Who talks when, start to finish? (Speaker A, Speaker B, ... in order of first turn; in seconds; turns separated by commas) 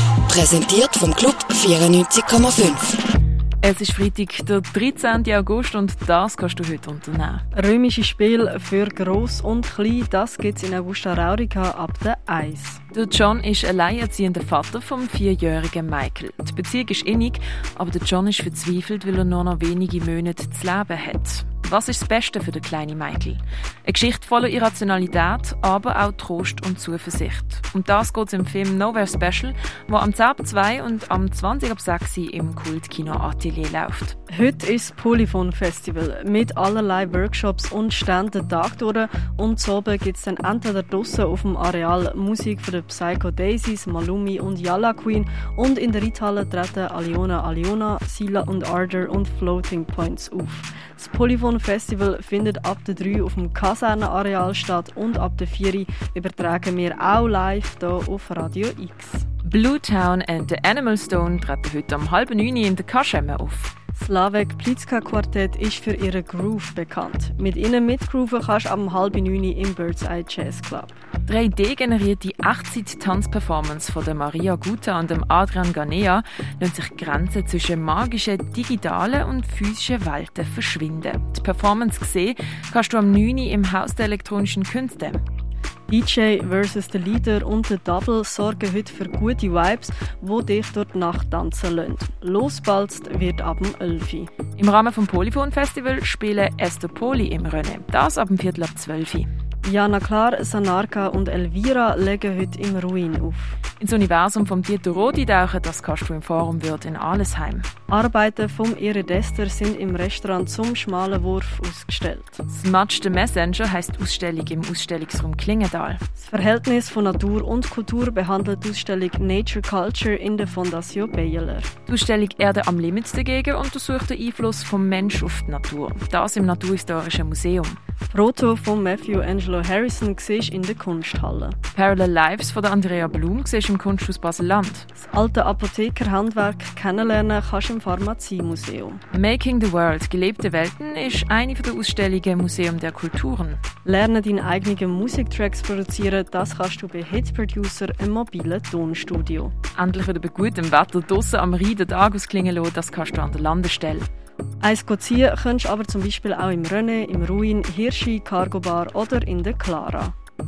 Speaker A: 0.3-3.0, Speaker B: 3.6-7.5, Speaker C: 7.5-12.8, Speaker B: 12.9-34.2, Speaker C: 34.3-59.3, Speaker B: 59.5-63.7, Speaker C: 64.0-71.0, Speaker B: 71.3-85.2, Speaker C: 85.9-94.3, Speaker B: 94.6-99.3, Speaker C: 99.6-103.6, Speaker B: 103.8-107.7, Speaker C: 107.9-112.4, Speaker B: 112.5-116.0, Speaker C: 116.2-121.7, Speaker B: 121.9-127.8, Speaker C: 128.1-131.6, Speaker B: 131.8-134.9, Speaker C: 135.0-139.0, Speaker B: 139.1-143.6, Speaker C: 143.8-149.5, Speaker B: 149.8-154.1, Speaker C: 154.6-160.1